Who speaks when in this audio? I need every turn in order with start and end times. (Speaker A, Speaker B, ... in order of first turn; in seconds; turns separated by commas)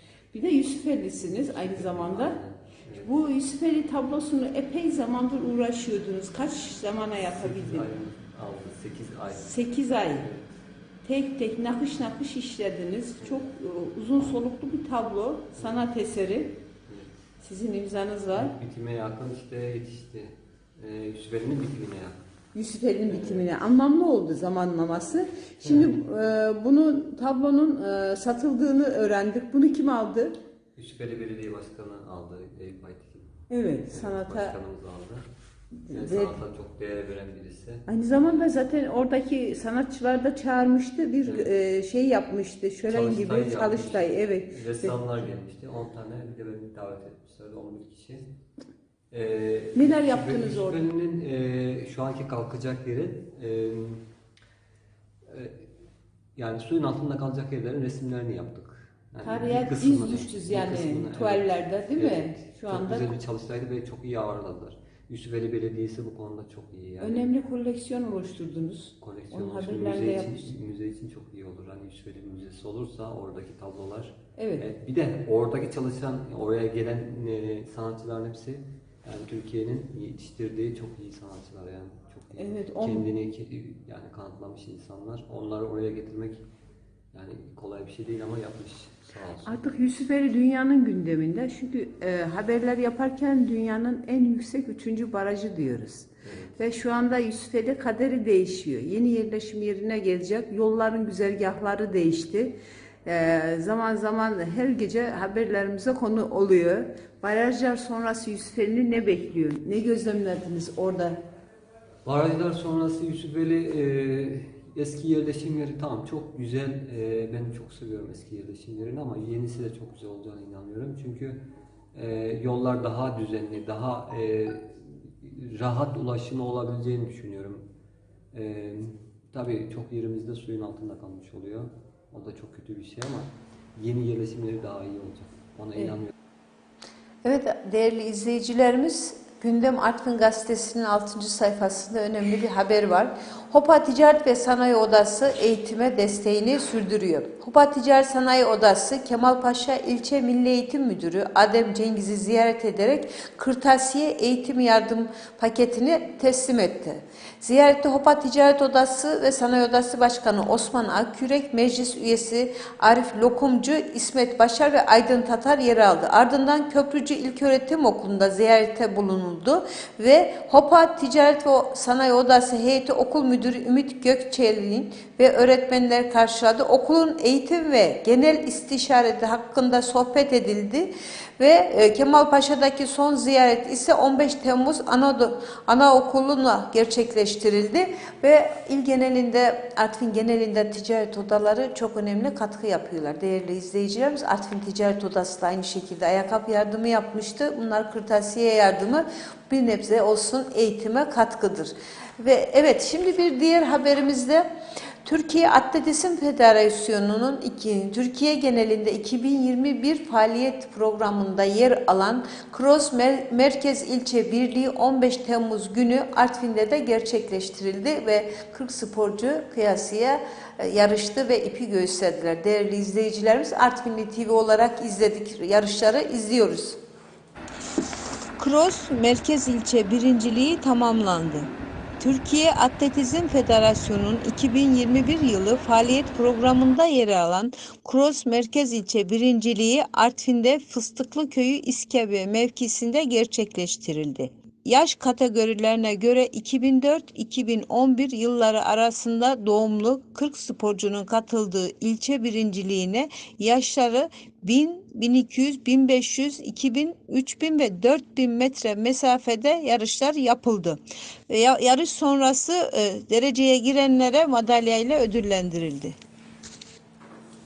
Speaker A: 0.3-2.4, Speaker B: 1.6-3.1, Speaker A: 3.0-7.9, Speaker B: 7.2-10.4, Speaker A: 9.4-10.3, Speaker A: 11.0-16.5, Speaker B: 13.2-13.5, Speaker B: 15.6-15.9, Speaker B: 16.8-17.1, Speaker A: 17.4-18.5, Speaker B: 18.3-22.2, Speaker A: 22.5-30.4, Speaker B: 23.1-23.5, Speaker B: 24.9-26.0, Speaker B: 30.8-33.3, Speaker A: 33.5-34.5, Speaker B: 33.9-35.2, Speaker A: 35.9-36.4, Speaker B: 35.9-38.4, Speaker A: 37.9-45.0, Speaker B: 41.2-41.5, Speaker B: 42.9-48.3, Speaker B: 49.1-54.0, Speaker A: 49.7-50.8, Speaker B: 55.3-55.7, Speaker B: 56.4-67.4, Speaker A: 59.2-63.1, Speaker A: 67.0-70.5, Speaker B: 69.0-86.4, Speaker A: 74.4-74.6, Speaker A: 82.4-83.1, Speaker B: 87.1-89.6, Speaker A: 89.4-111.2, Speaker B: 96.2-96.6, Speaker B: 112.0-121.4, Speaker B: 121.9-127.6, Speaker B: 128.3-136.1, Speaker C: 137.2-204.4, Speaker C: 205.0-226.8, Speaker C: 228.4-231.5, Speaker C: 232.0-266.0